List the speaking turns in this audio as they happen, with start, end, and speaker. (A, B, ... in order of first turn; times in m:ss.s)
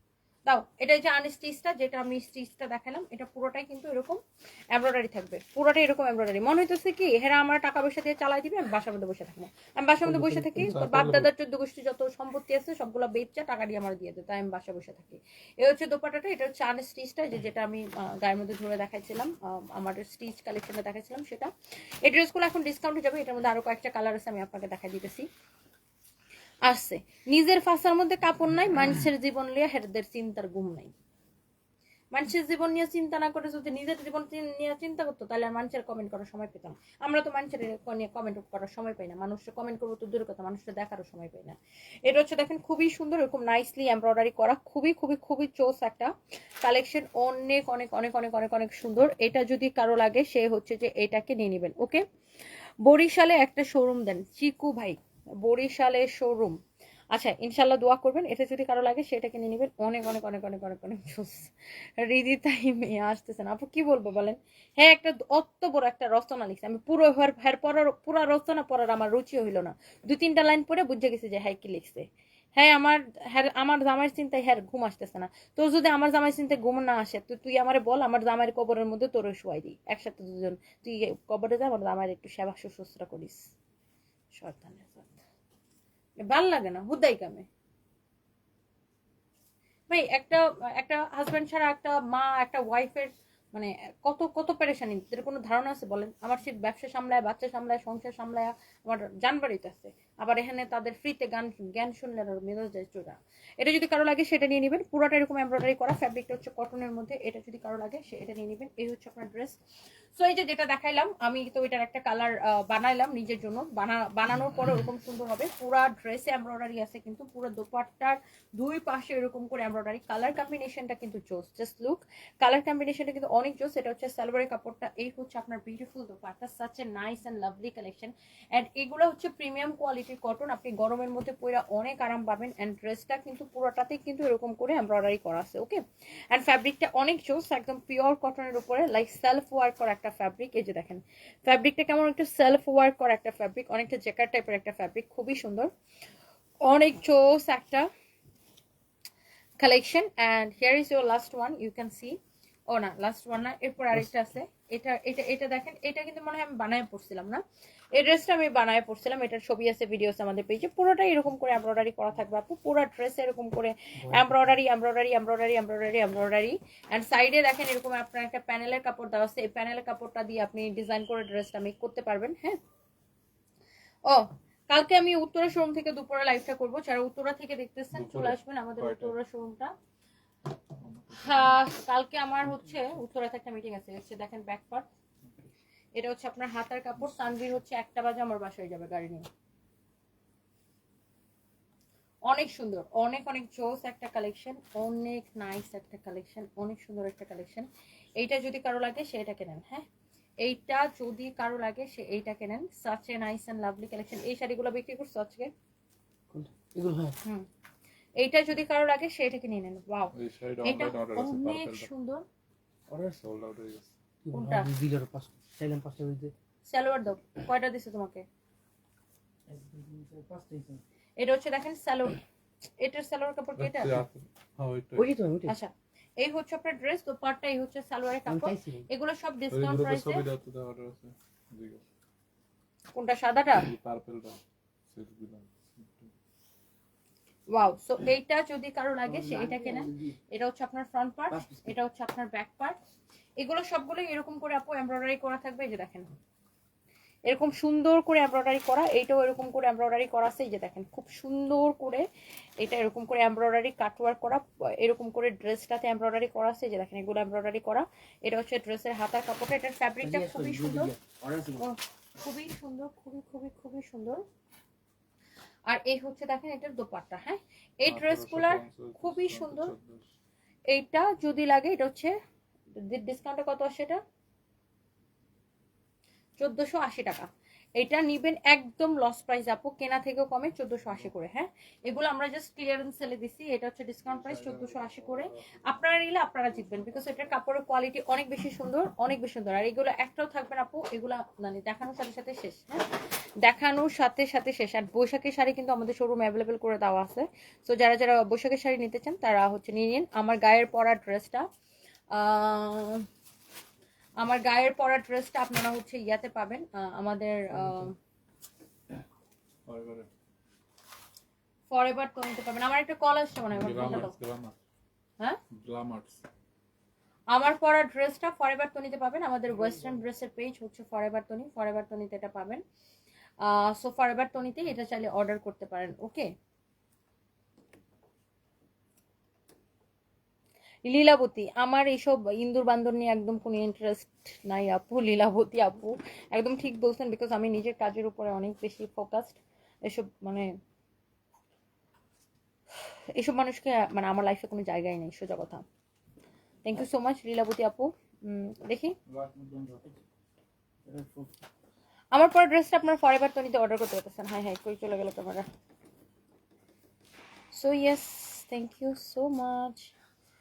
0:00.5-0:04.2 A
0:04.7-0:21.5 A
0:10.0-0:10.7 B
0:10.6-0:11.3 C
0:22.0-0:25.3 A
0:26.7-0:30.9 A
0:32.1-0:41.6 A
0:42.1-0:46.1 A
0:46.6-0:52.0 A
0:52.9-0:56.6 A
0:57.1-1:23.5 A
1:24.3-1:25.2 A
1:26.2-1:27.5 A
1:29.9-1:49.6 A
1:50.2-2:25.7 A
2:26.7-2:27.9 A
2:29.6-2:32.2 A
2:32.7-2:37.4 A
2:37.9-2:52.6 A
2:44.0-2:44.4 B
2:54.1-2:59.7 A
2:57.9-2:59.1 C
3:00.8-3:01.6 C
3:01.1-3:04.8 A
3:06.0-3:09.3 A
3:12.3-3:19.8 A
3:20.4-3:25.5 A
3:26.3-3:27.2 B
3:28.2-3:32.2 A
3:30.1-3:31.9 C
3:32.9-3:33.2 B
3:33.2-3:33.9 C
3:34.2-3:36.3 B
3:34.3-3:34.7 A
3:36.7-3:38.2 A
3:39.5-3:40.8 B
3:41.2-3:42.2 A
3:42.8-3:44.0 A
3:43.6-3:45.1 C
3:45.0-3:45.6 B
3:45.5-3:50.3 A
3:48.3-3:48.9 B
3:49.5-3:51.8 C
3:52.9-3:53.7 A
3:53.6-3:56.1 C
3:57.5-4:02.8 A
3:59.1-4:00.2 B
4:01.3-4:01.8 B
4:03.4-4:06.1 A
4:07.3-4:12.0 A
4:12.6-4:20.9 A
4:20.0-4:21.7 B
4:21.6-4:24.2 A
4:25.7-4:29.7 A
4:27.8-4:30.1 C
4:30.7-4:32.1 A
4:32.9-4:34.0 A
4:36.4-4:52.8 A
4:44.1-4:47.3 C
4:53.4-5:01.5 A
5:02.1-5:03.1 A
5:04.2-5:08.0 A
5:09.6-5:10.1 C
5:11.7-5:14.1 A
5:13.5-5:14.6 C
5:15.5-5:16.2 C
5:17.3-5:22.6 A
5:19.6-5:20.0 B
5:23.4-5:26.3 A
5:30.9-5:40.5 A
5:43.2-5:45.6 A
5:46.6-5:49.0 A
5:49.1-5:49.9 C
5:50.9-5:51.3 B
5:52.1-5:55.5 A
5:57.5-5:59.9 A